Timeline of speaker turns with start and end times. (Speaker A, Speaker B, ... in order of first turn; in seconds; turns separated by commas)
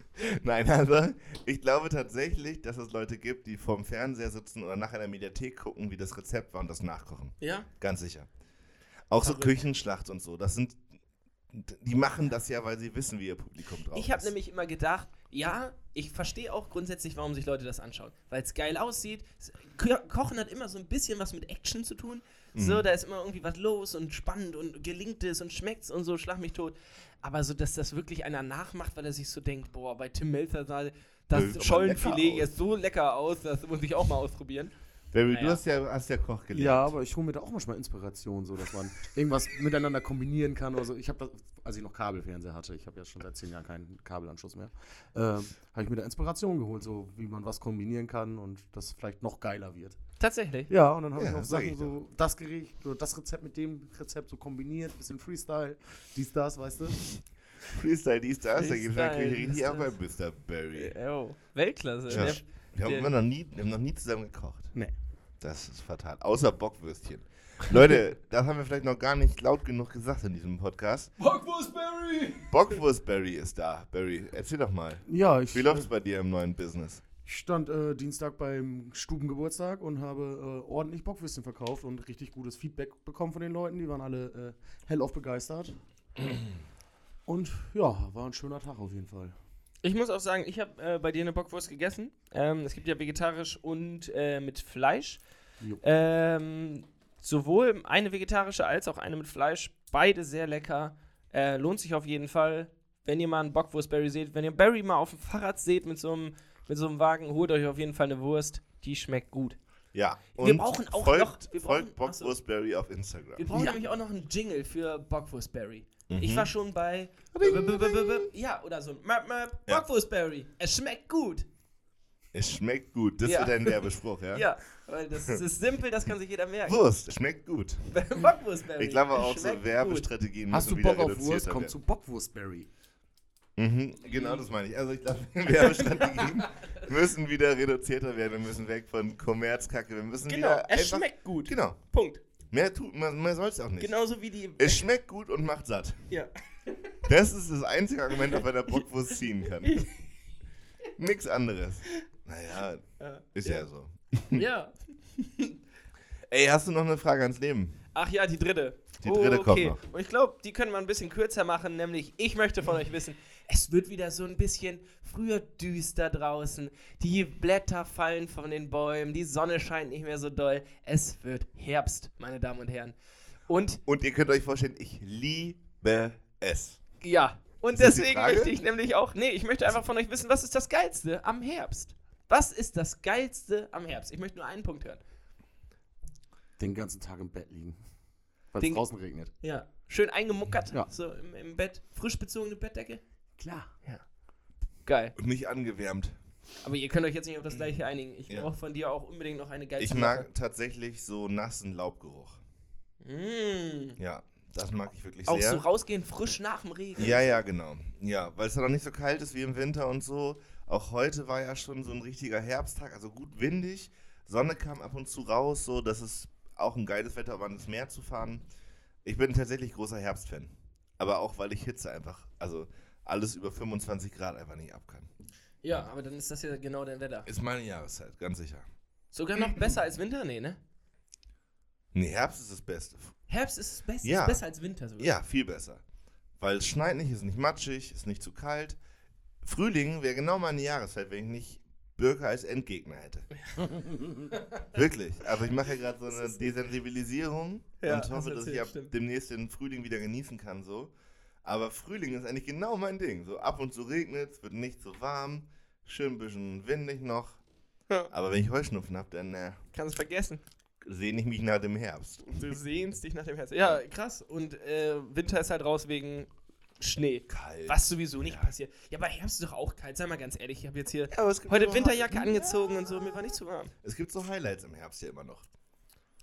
Speaker A: 0.2-8.3, Speaker B: 7.4-7.7, Speaker A: 9.1-10.8, Speaker B: 9.2-9.6, Speaker A: 11.5-14.3, Speaker B: 13.9-34.7, Speaker A: 22.6-22.8, Speaker A: 31.3-32.5, Speaker A: 35.1-36.9, Speaker B: 35.3-35.6, Speaker C: 36.5-50.0, Speaker B: 50.2-50.7, Speaker C: 50.7-57.1, Speaker A: 51.2-52.0, Speaker A: 57.7-61.0, Speaker B: 58.6-59.9, Speaker B: 60.8-63.1, Speaker A: 62.1-64.7, Speaker A: 65.4-71.2, Speaker B: 71.2-72.8, Speaker A: 72.5-77.0, Speaker C: 75.1-75.9, Speaker C: 77.3-85.8, Speaker C: 87.3-89.3, Speaker B: 89.8-95.2, Speaker B: 95.8-109.6, Speaker A: 109.9-113.5, Speaker B: 110.4-112.3, Speaker B: 113.4-121.5, Speaker C: 113.5-113.8, Speaker A: 116.1-116.5, Speaker A: 117.3-118.3, Speaker A: 122.3-124.5, Speaker B: 123.2-126.8, Speaker A: 126.7-128.0, Speaker B: 127.9-130.1, Speaker A: 128.8-131.8, Speaker C: 130.5-132.7, Speaker A: 133.6-141.8, Speaker B: 134.0-134.4, Speaker B: 135.9-136.4, Speaker B: 140.3-142.2, Speaker A: 142.5-146.0, Speaker B: 143.8-144.8, Speaker B: 146.1-146.9, Speaker A: 147.1-149.9, Speaker B: 148.3-148.8, Speaker B: 149.6-149.9, Speaker A: 151.0-154.4, Speaker B: 153.0-153.6, Speaker B: 154.3-155.6, Speaker A: 156.3-157.8, Speaker B: 157.9-172.9, Speaker A: 159.0-159.8, Speaker B: 173.5-173.8, Speaker A: 173.9-176.8, Speaker B: 177.0-185.0, Speaker A: 177.7-178.6, Speaker C: 186.6-187.8, Speaker C: 188.5-189.3, Speaker B: 188.6-188.8, Speaker B: 189.4-193.0, Speaker C: 193.4-193.7, Speaker B: 194.8-195.2, Speaker A: 195.2-196.2, Speaker B: 196.6-200.3, Speaker A: 199.8-202.4, Speaker B: 203.0-204.0, Speaker A: 204.0-205.6, Speaker B: 205.3-207.3, Speaker A: 207.0-218.4, Speaker A: 219.1-225.1, Speaker B: 225.6-227.3, Speaker A: 227.3-228.7, Speaker B: 229.1-230.6, Speaker A: 231.9-233.2, Speaker B: 233.3-235.1, Speaker A: 234.0-234.4, Speaker A: 235.0-235.8, Speaker A: 236.4-238.8, Speaker A: 239.4-243.3, Speaker C: 243.8-244.3, Speaker B: 244.3-244.6, Speaker A: 244.7-250.9, Speaker B: 247.8-248.9, Speaker A: 251.4-257.4, Speaker A: 258.1-259.6, Speaker B: 259.7-260.4, Speaker A: 260.8-262.5, Speaker B: 262.3-273.7, Speaker A: 267.3-268.5, Speaker A: 271.1-275.4